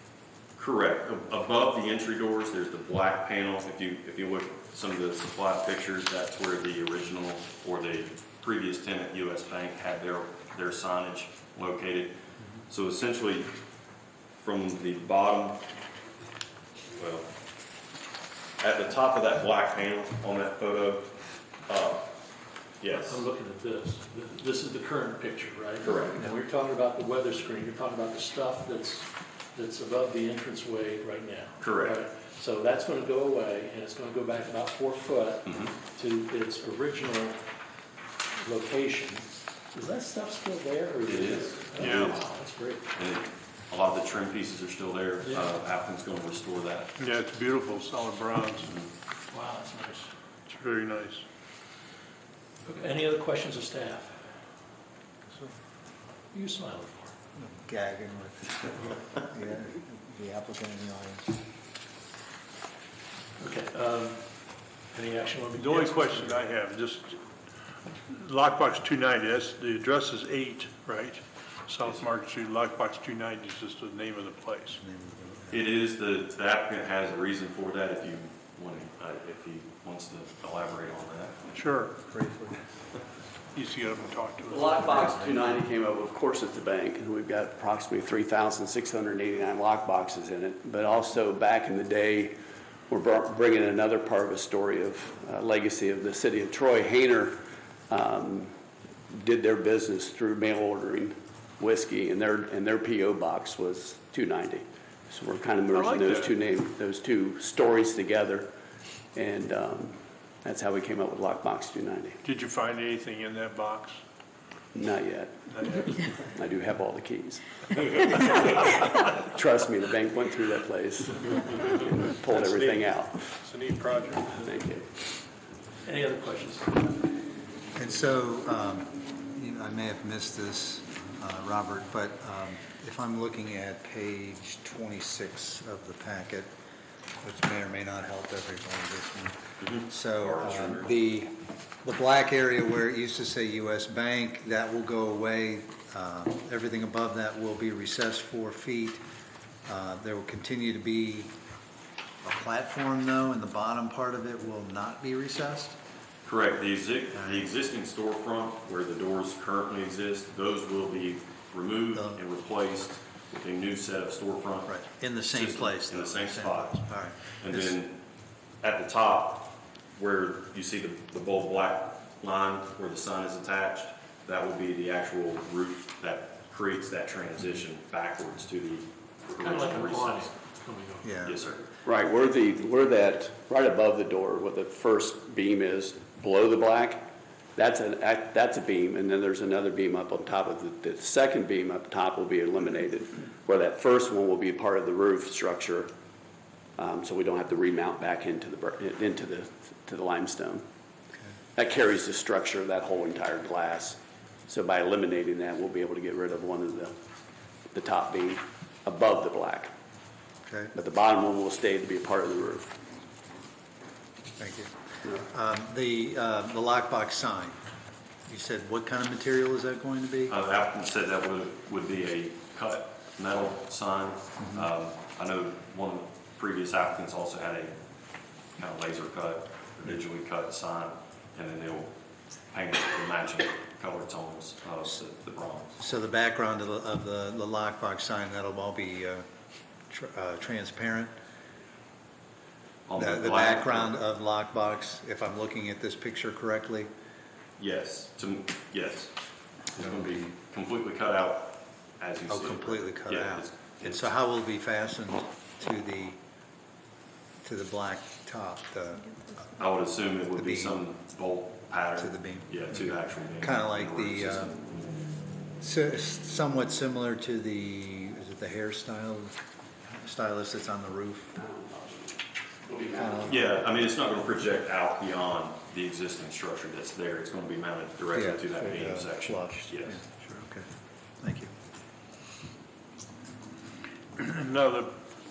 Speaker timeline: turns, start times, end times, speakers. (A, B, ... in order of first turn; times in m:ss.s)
0:00.6-0:12.2 A
0:12.7-0:13.5 A
0:14.4-0:15.6 A
0:16.9-0:17.3 A
0:18.6-0:21.1 A
0:21.6-0:22.1 A
0:22.8-0:23.2 A
0:22.9-0:37.4 B
0:25.8-0:26.2 A
0:31.6-0:32.0 A
0:35.4-0:35.7 A
0:38.4-0:42.9 B
0:41.0-0:42.2 A
0:41.8-0:42.1 C
0:42.9-0:46.9 A
0:45.2-0:45.5 B
0:47.0-0:48.7 C
0:48.6-0:48.9 A
0:49.3-0:50.1 B
0:50.5-0:51.2 C
0:52.6-0:54.1 B
0:56.3-0:57.1 B
0:57.3-1:01.4 D
1:03.4-1:04.2 B
1:04.9-1:06.4 B
1:05.6-1:07.2 C
1:08.1-1:14.8 C
1:14.8-1:15.7 D
1:15.5-1:21.6 A
1:21.5-1:22.0 C
1:22.0-1:22.6 D
1:23.5-1:25.4 C
1:24.5-1:32.3 E
1:32.9-1:38.5 E
1:39.1-1:48.5 E
1:45.7-1:46.3 C
1:49.1-1:52.2 E
1:52.2-1:54.0 C
1:54.7-1:55.5 E
1:55.5-1:56.1 C
1:56.3-1:57.6 E
1:58.0-1:58.8 C
1:59.2-2:03.3 E
2:02.2-2:04.4 C
2:04.3-2:05.0 E
2:05.8-2:06.9 B
2:07.8-2:16.5 D
2:17.2-2:21.3 D
2:19.6-2:20.9 A
2:21.8-2:29.0 D
2:29.6-2:31.3 D
2:32.2-2:35.8 D
2:36.2-2:44.7 A
2:37.2-2:37.5 D
2:41.9-2:42.2 D
2:44.7-2:47.8 D
2:45.3-2:46.8 A
2:47.4-2:48.0 A
2:48.6-3:00.3 A
2:59.4-3:01.6 B
3:01.0-3:01.4 D
3:01.2-3:01.6 A
3:01.8-3:07.0 E
3:07.6-3:15.9 E
3:16.8-3:20.6 E
3:21.6-3:26.9 E
3:27.7-3:29.7 E
3:30.4-3:30.7 D
3:30.7-3:32.7 E
3:34.4-3:37.6 D
3:38.3-3:40.4 D
3:40.3-3:47.7 A
3:44.4-3:44.7 D
3:48.6-3:51.9 A
3:52.5-3:55.7 A
3:55.8-3:59.2 D
3:59.9-4:01.1 D
4:02.9-4:03.9 A
4:03.0-4:06.9 D
4:07.6-4:09.1 A
4:09.7-4:14.1 A
4:09.8-4:10.3 D
4:12.3-4:16.2 D
4:17.4-4:19.3 D
4:19.6-4:24.7 A
4:20.3-4:20.8 D
4:22.0-4:24.5 D
4:25.6-4:29.3 D
4:29.9-4:31.4 D
4:31.4-4:33.5 E
4:32.9-4:33.6 D
4:33.2-4:40.0 A
4:38.1-4:40.7 D
4:41.2-4:41.5 D
4:44.2-4:45.0 C